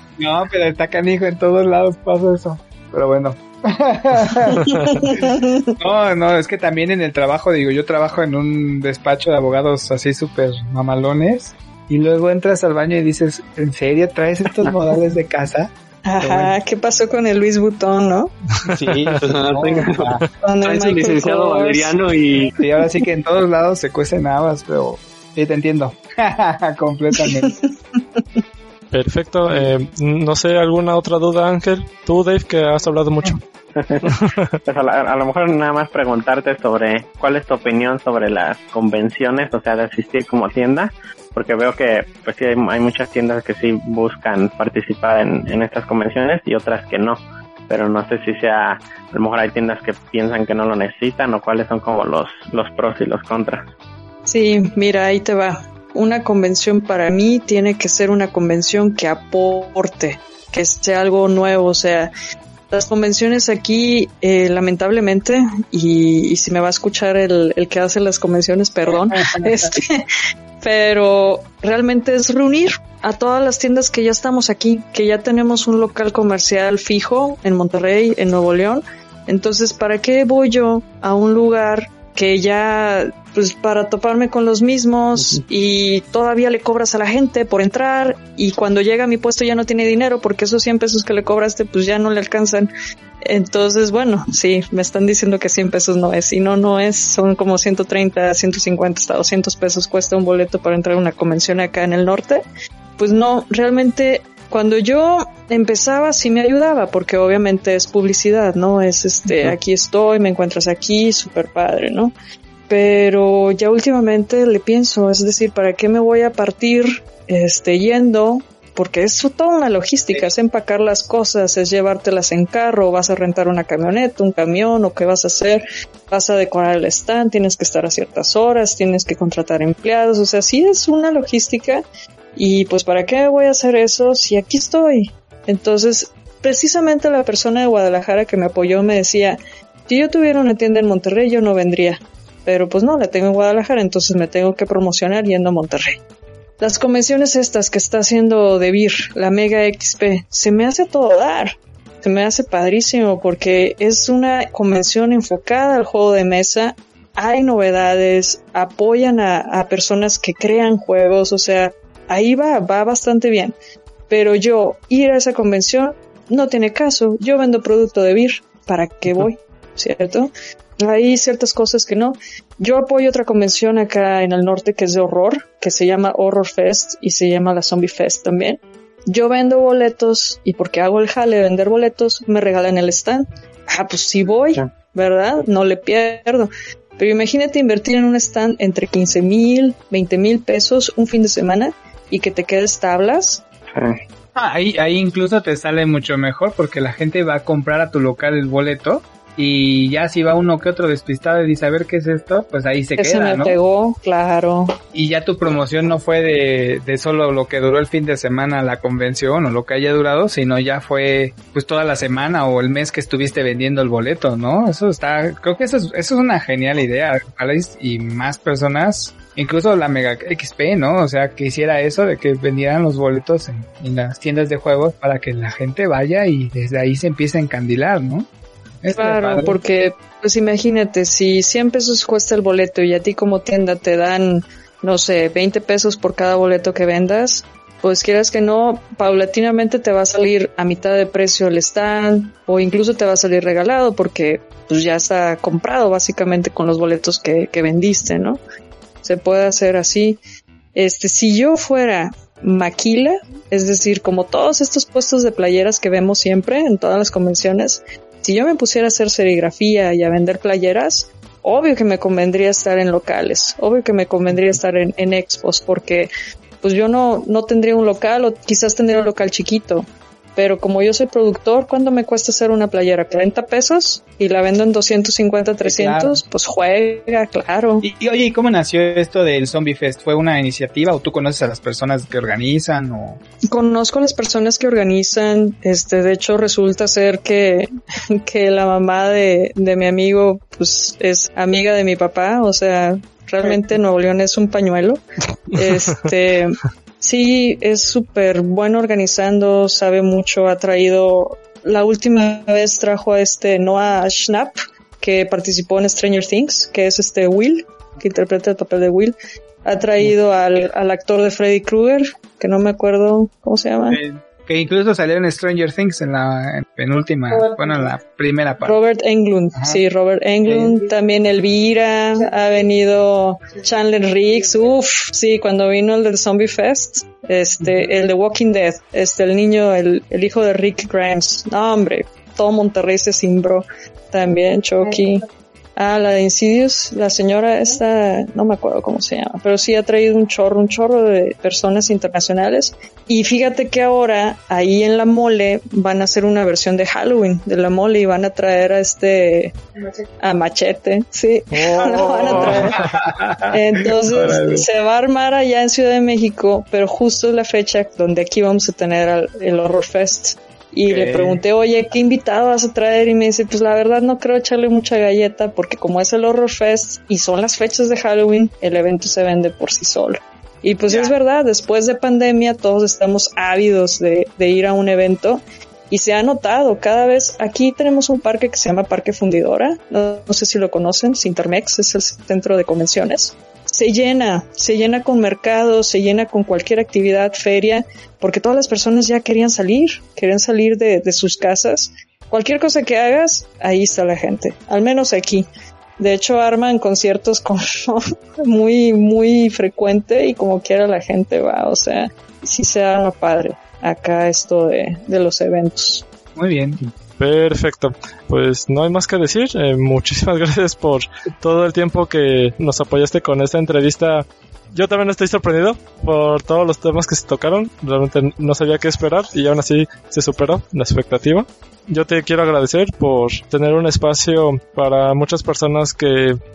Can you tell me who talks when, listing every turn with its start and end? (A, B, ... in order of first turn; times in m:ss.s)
0:00.2-0:16.6 A
0:04.5-0:05.8 B
0:04.8-0:05.1 C
0:16.0-0:18.3 B
0:18.7-0:19.2 C
0:18.7-0:20.2 A
0:19.2-0:22.6 D
0:20.4-0:22.0 B
0:22.6-0:27.6 A
0:28.9-0:33.4 C
0:33.8-0:34.1 E
0:34.0-0:34.6 C
0:34.7-0:53.7 E
0:54.3-1:02.1 B
1:02.7-1:10.1 B
1:09.2-1:09.5 A
1:10.6-1:32.7 B
1:33.2-1:42.4 B
1:43.0-1:52.1 B
1:52.7-2:11.8 B
2:12.4-2:26.0 B
2:26.6-2:43.6 B
2:44.1-3:13.4 B
3:13.7-3:14.0 E
3:14.4-3:23.6 A
3:23.0-3:24.7 B
3:24.9-3:48.3 A
3:48.8-3:49.6 A
3:48.9-4:08.4 B
4:09.0-4:10.2 B
4:10.8-4:26.1 B
4:26.6-4:37.9 B
4:35.7-4:36.2 A
4:37.8-4:43.2 A
4:43.5-5:14.0 B
5:13.9-5:18.8 A
5:18.6-5:35.2 B
5:19.6-5:19.8 A
5:20.4-5:20.8 A
5:35.8-5:49.6 B
5:50.2-5:52.9 B
5:51.6-5:52.9 C
5:52.0-5:54.7 A
5:53.5-6:35.5 B
6:00.9-6:01.4 A
6:10.9-6:11.1 A
6:36.0-6:46.0 B
6:46.4-6:46.8 A
6:47.2-7:06.4 C